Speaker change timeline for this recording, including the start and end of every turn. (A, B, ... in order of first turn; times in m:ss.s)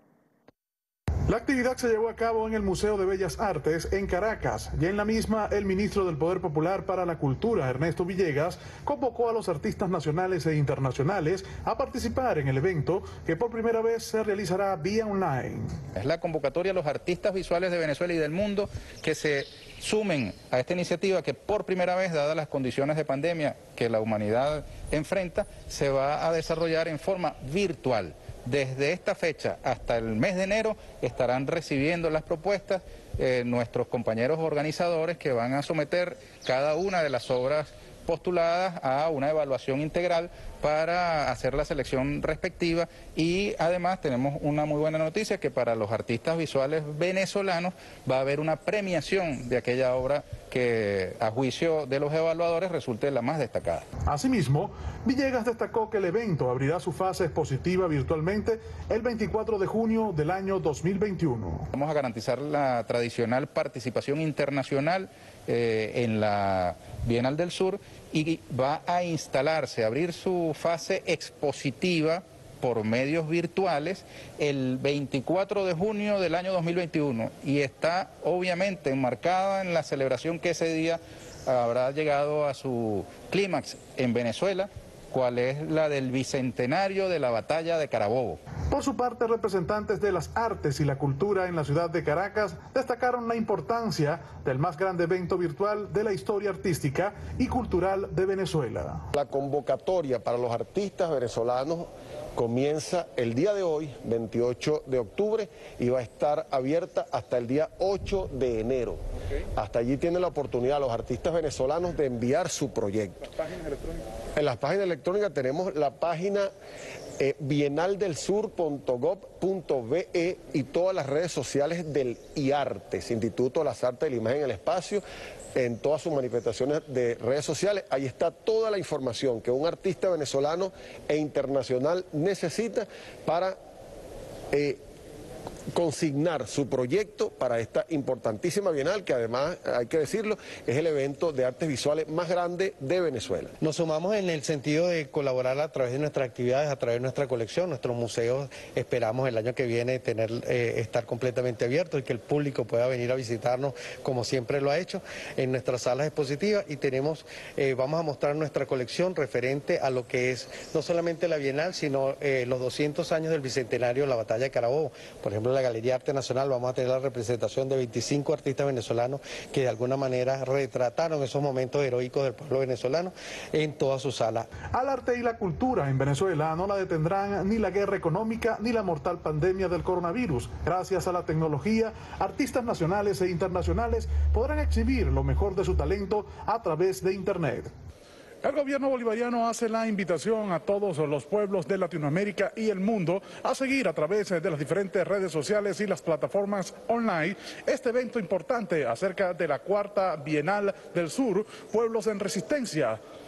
0:01.3-0:15.8 A
0:16.0-0:53.9 B
0:54.1-1:01.7 A
1:01.7-1:28.4 B
1:28.7-1:39.0 A
1:39.1-1:49.0 C
1:49.6-1:53.4 C
1:54.4-1:56.5 C
1:57.2-2:05.0 C
2:05.6-2:13.6 C
2:14.5-2:14.8 C
2:15.7-2:23.5 C
2:23.6-2:54.5 D
2:54.7-3:07.7 A
3:08.4-3:23.0 A